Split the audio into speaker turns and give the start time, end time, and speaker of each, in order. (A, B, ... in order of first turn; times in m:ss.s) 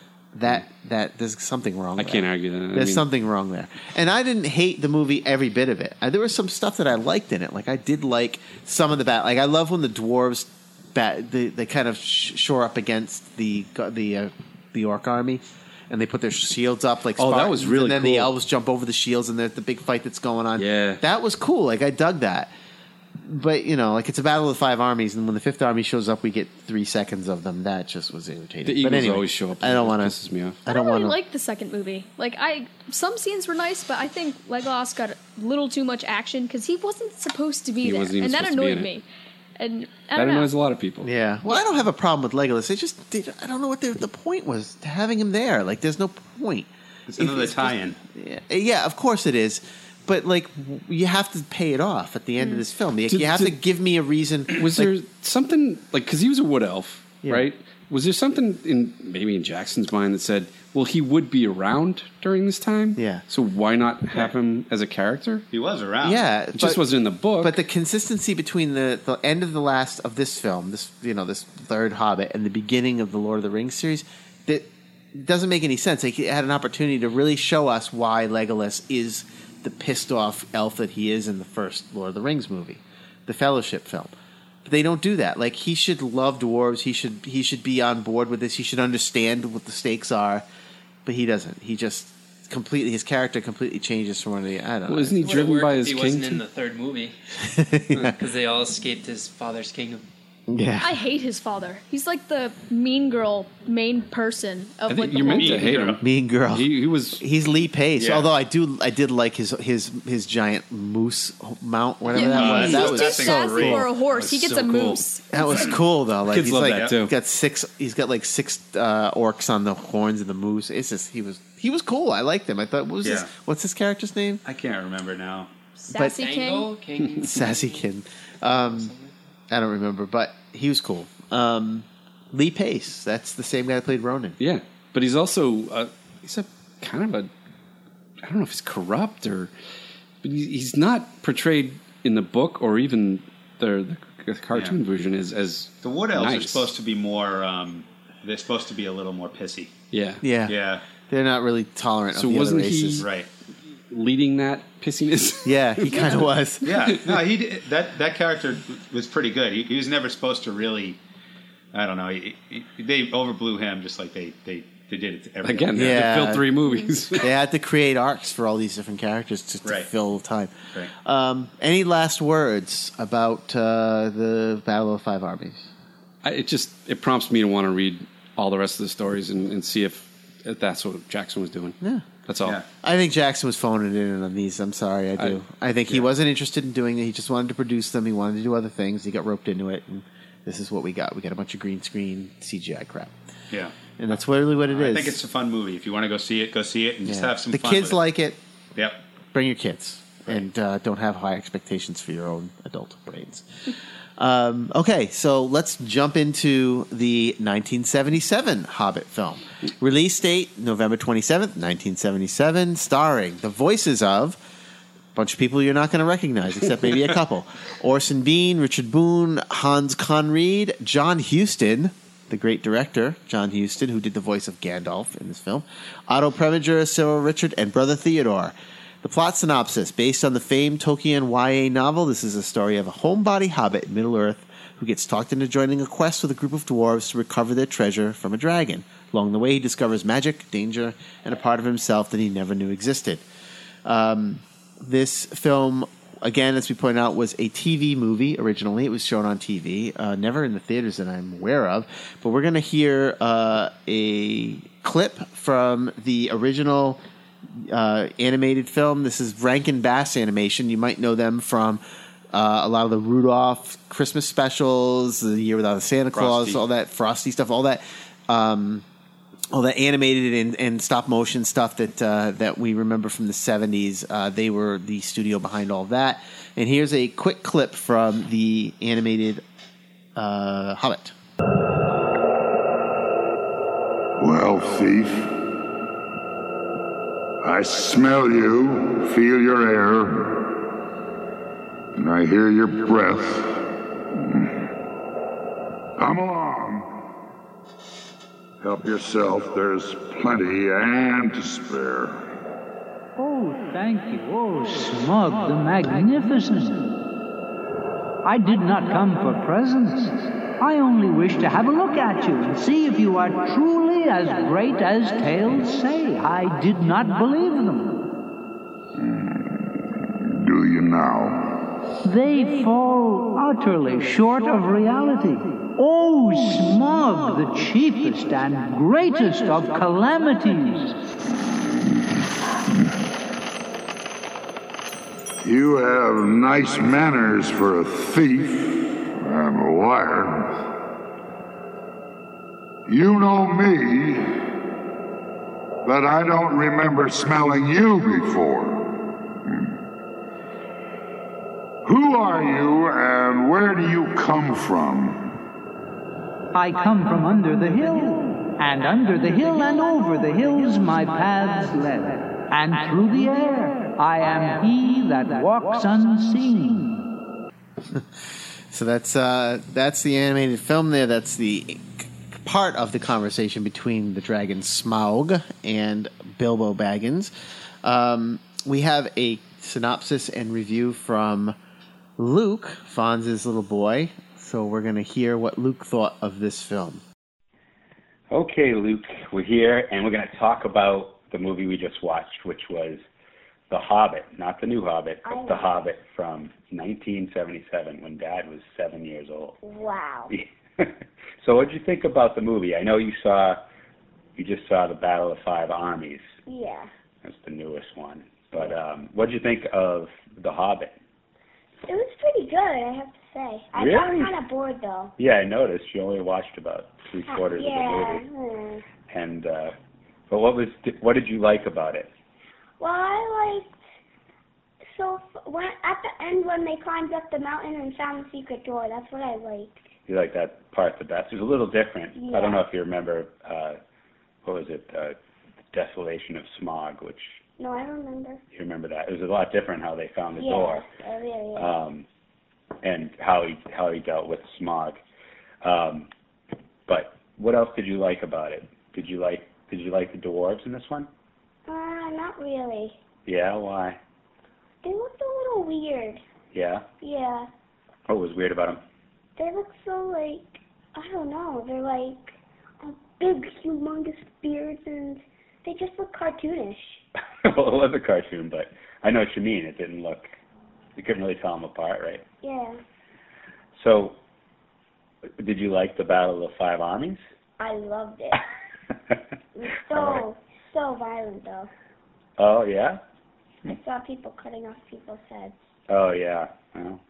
0:00.3-0:22.5 A
0:02.0-0:03.0 B
0:17.2-0:18.3 B
0:20.6-0:21.0 B
0:23.2-0:31.2 A
0:28.6-0:30.6 B
0:30.7-0:39.0 C
0:37.8-0:38.9 B
0:39.6-0:40.5 C
0:40.1-0:41.1 B
0:41.0-0:54.9 A
0:47.1-0:48.0 D
0:53.1-0:53.6 B
0:54.6-1:05.4 B
1:03.0-1:03.2 A
1:05.5-1:06.2 D
1:06.0-1:06.8 A
1:06.5-1:07.6 B
1:07.4-1:24.1 A
1:24.6-1:30.4 A
1:31.0-1:35.2 A
1:34.8-1:36.4 B
1:35.2-1:37.2 E
1:37.5-1:38.1 A
1:37.9-1:40.0 E
1:40.5-1:40.9 A
1:40.8-1:45.7 C
1:44.9-1:47.2 B
1:45.1-1:46.0 D
1:46.0-1:53.8 A
1:48.0-1:48.3 D
1:52.1-1:55.7 C
1:52.2-1:54.6 D
1:54.1-1:55.0 B
1:55.3-2:04.4 A
1:55.4-1:55.8 D
1:56.3-1:57.1 B
1:56.6-1:56.9 D
2:03.0-2:03.3 D
2:04.4-2:05.5 D
2:05.8-2:06.7 C
2:06.2-2:07.9 E
2:07.2-2:08.9 A
2:08.4-2:09.1 E
2:09.5-2:14.4 A
2:14.4-2:17.3 B
2:18.2-2:19.5 B
2:20.2-2:26.7 B
2:24.5-2:24.8 D
2:25.8-2:29.7 D
2:29.9-2:30.2 B
2:30.2-2:30.5 A
2:30.5-2:30.8 D
2:31.0-2:33.0 A
2:32.1-2:33.1 B
2:33.0-2:33.3 D
2:33.9-2:37.2 B
2:35.4-2:36.7 A
2:36.6-2:41.0 D
2:41.7-2:46.1 D
2:45.4-2:47.3 B
2:45.7-2:46.5 A
2:46.6-2:46.9 C
2:47.1-2:55.7 A
2:56.2-3:02.6 B
3:02.8-3:13.1 A
3:14.0-3:15.2 A
3:14.7-3:18.0 D
3:17.0-3:18.4 A
3:19.3-3:34.4 A
3:35.1-4:03.2 A
4:03.8-4:17.0 A
4:17.5-4:21.8 A
4:22.3-4:28.8 A
4:26.1-4:26.6 D
4:29.5-4:39.4 A
4:40.1-4:41.1 A
4:44.2-4:45.4 F
4:47.4-4:50.6 F
4:52.0-4:54.7 F
4:56.0-4:56.9 F
4:58.6-5:02.3 F
5:03.2-5:07.0 G
5:08.2-5:18.1 G
5:19.0-5:19.7 F
5:20.4-5:21.7 F
5:22.0-5:31.0 G
5:35.4-5:40.8 F
5:42.9-5:44.5 F
5:45.8-5:49.7 F
5:51.8-5:55.4 F
5:56.5-6:07.1 G
6:07.9-6:17.3 A
6:17.8-6:21.5 A
6:22.2-6:27.0 A
6:28.3-6:33.0 H
6:33.7-6:39.6 H
6:35.2-6:35.9 I
6:39.6-6:40.3 I
6:40.3-6:40.9 H
6:41.4-6:43.6 H
6:44.4-6:46.3 H
6:46.4-6:46.9 I
6:47.2-6:50.9 H
6:51.8-6:55.1 I
6:53.7-6:54.3 H
6:55.2-6:58.2 H
6:57.2-6:58.9 I
6:59.1-6:59.7 H
7:00.3-7:02.1 H
7:02.8-7:03.8 I
7:04.9-7:10.0 I
7:10.0-7:13.8 H
7:12.1-7:12.7 I
7:14.4-7:15.2 H
7:15.7-7:17.3 H
7:17.6-7:18.4 I
7:18.5-7:20.8 H
7:20.3-7:21.7 I
7:21.6-7:22.0 H
7:22.8-7:25.0 H
7:25.6-7:26.1 H
7:26.9-7:31.1 H
7:31.7-7:33.0 I
7:33.2-7:34.0 H
7:34.8-7:36.2 I
7:36.5-7:36.8 H
7:37.0-7:37.5 I
7:38.1-7:38.8 H
7:39.4-7:47.0 I
7:47.5-7:50.3 H
7:51.0-7:52.2 H
7:52.4-7:52.8 I
7:53.8-7:54.2 H
7:55.4-7:57.2 H
7:57.6-7:58.4 I
7:59.6-8:01.7 I
7:59.9-8:00.2 H
8:02.4-8:03.0 H
8:03.7-8:05.6 I
8:05.9-8:07.0 H